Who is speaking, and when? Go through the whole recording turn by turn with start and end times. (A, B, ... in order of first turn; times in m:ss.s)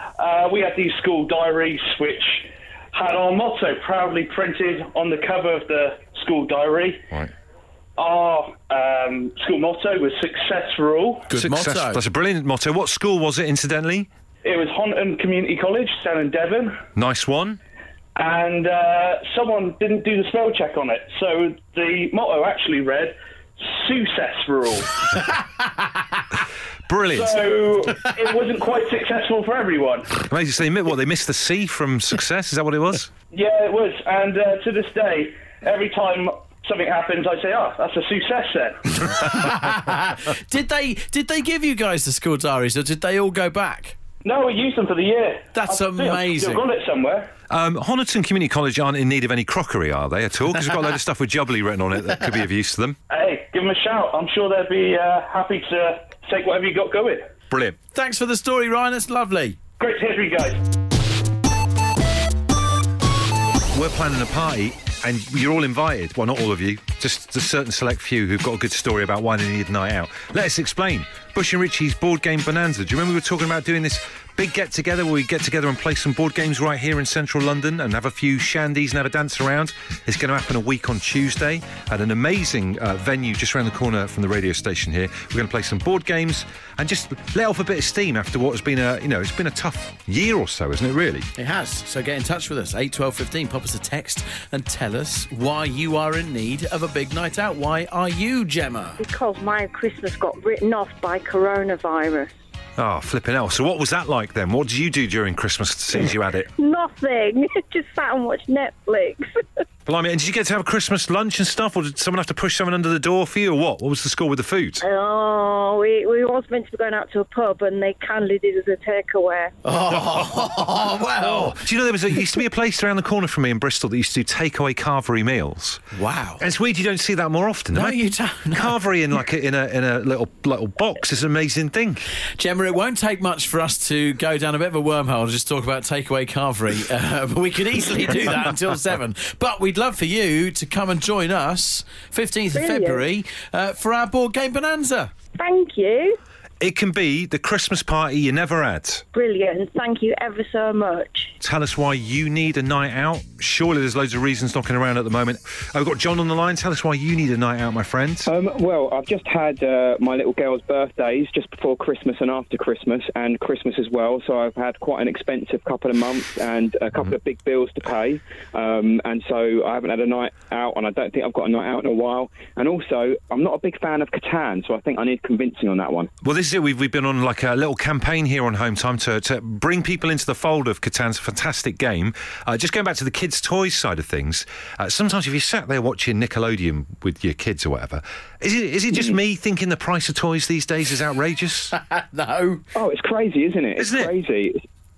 0:00.2-0:07.0 A
0:08.0-0:11.3 A
0:11.3-0:12.0 B
0:11.3-0:14.1 C
0:14.4-0:16.8 A
0:17.0-0:17.6 C
0:18.2-0:25.0 A
0:25.4-0:25.7 B
0:26.9-0:27.4 C
0:27.1-0:30.2 A
0:30.2-0:33.1 C
0:33.3-0:39.0 A
0:39.0-0:44.0 B
0:44.2-0:47.3 A
0:45.5-0:46.7 B
0:47.5-0:53.0 C
0:53.1-0:57.3 A
0:57.5-0:57.8 C
0:57.9-0:59.6 B
0:59.8-1:00.6 A
1:03.7-1:31.3 C
1:31.4-1:39.0 B
1:39.0-1:42.3 D
1:42.8-1:46.5 C
1:46.6-1:49.3 D
1:49.9-1:54.8 C
1:54.8-1:59.6 D
1:59.6-2:01.6 B
2:01.2-2:05.8 C
2:06.0-2:06.4 B
2:06.4-2:08.0 C
2:07.7-2:08.8 B
2:08.5-2:12.0 C
2:12.4-2:25.1 B
2:22.5-2:23.1 D
2:25.4-2:26.2 D
2:26.6-2:29.0 C
2:29.1-2:31.3 D
2:31.4-2:38.3 C
2:38.3-2:56.1 E
2:56.2-3:11.7 C
3:11.7-3:12.6 B
3:12.8-3:14.6 E
3:13.8-3:14.1 C